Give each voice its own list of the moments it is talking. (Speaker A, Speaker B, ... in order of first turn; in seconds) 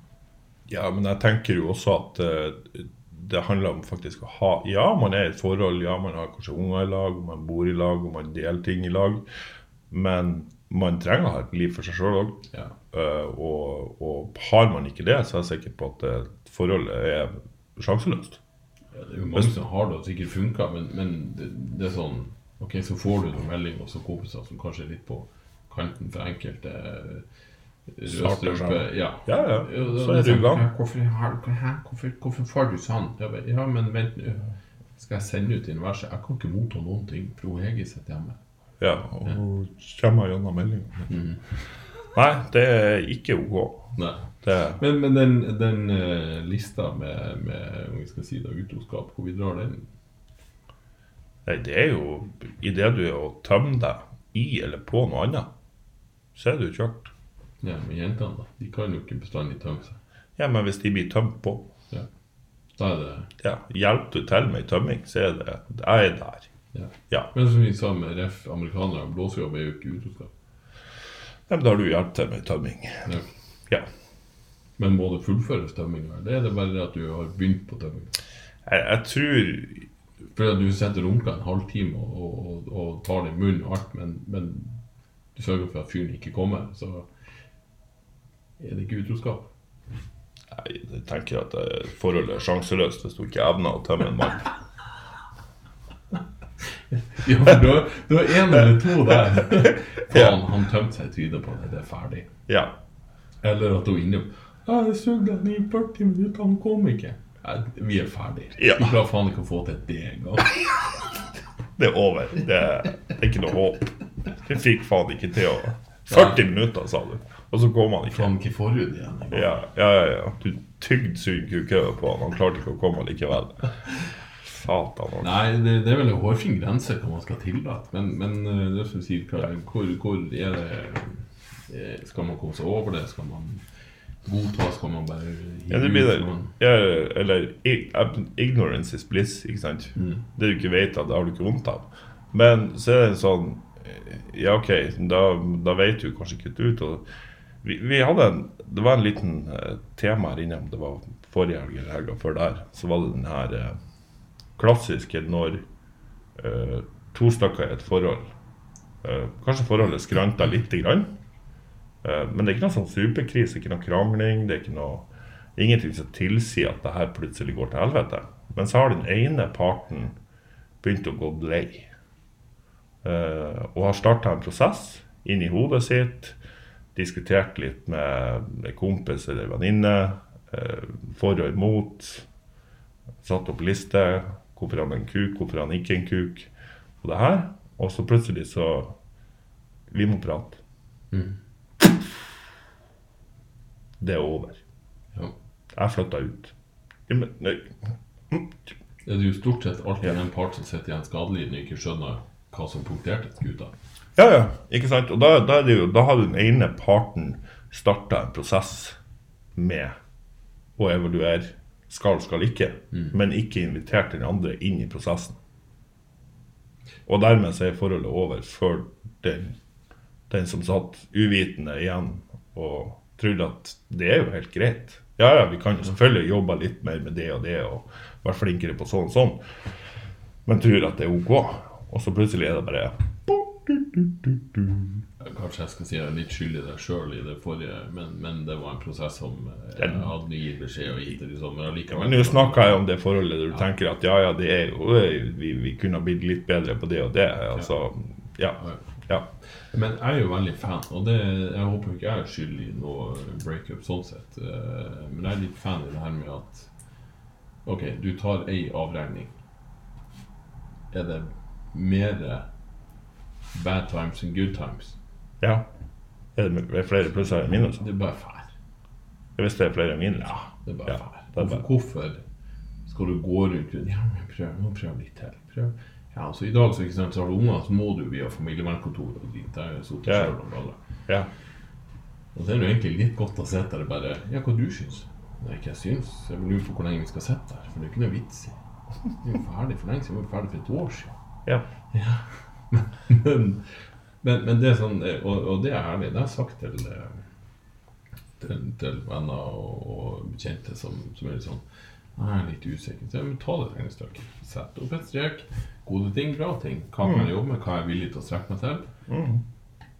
Speaker A: 0.7-9.2, 9.9-18.4, 28.1-30.6, 38.8-41.1, 42.1-44.8, 51.5-55.5, 56.4-57.1, 60.4-61.7, 63.4-66.5, 71.5-73.1, 78.7-79.9, 90.5-94.5, 100.1-100.4, 102.5-102.7, 108.6-109.0, 111.8-118.3, 119.3-123.7, 124.4-125.3, 135.7-147.0, 147.6-153.8, 154.6-155.6, 156.3-158.3, 159.0-161.1, 162.0-170.2, 170.8-171.9, 173.0-176.4, 176.9-182.3, 183.2-186.5, 187.0-188.9, 189.9-190.6, 194.0-194.6, 195.7-196.5, 197.1-197.7, 198.3-198.6, 204.2-209.0, 209.5-209.9, 210.8-215.4, 217.1-219.6, 220.3-229.4, 230.4-235.0, 239.8-240.1, 241.9-249.3, 265.4-265.6, 266.4-267.8, 269.4-271.6, 280.1-280.3, 309.1-309.4
Speaker B: 18.9-27.2, 27.9-38.4, 41.1-41.4, 44.0-44.2, 44.8-49.9, 57.6-60.0, 62.8-63.3, 66.7-70.3, 73.0-73.3, 74.8-78.1, 80.3-84.8, 85.3-87.1, 88.6-89.5, 96.9-102.3, 103.4-110.7, 118.1-119.6, 125.2-133.6, 134.2-136.5, 139.9-140.2, 191.1-191.4, 199.0-203.7, 235.2-242.8, 249.7-256.7, 257.6-259.3, 260.9-262.4, 263.5-265.0, 267.4-268.5, 270.6-272.2, 272.9-280.8, 282.3-288.6, 289.2-291.1, 291.9-293.7, 294.2-297.2, 298.4-301.6, 302.1-308.9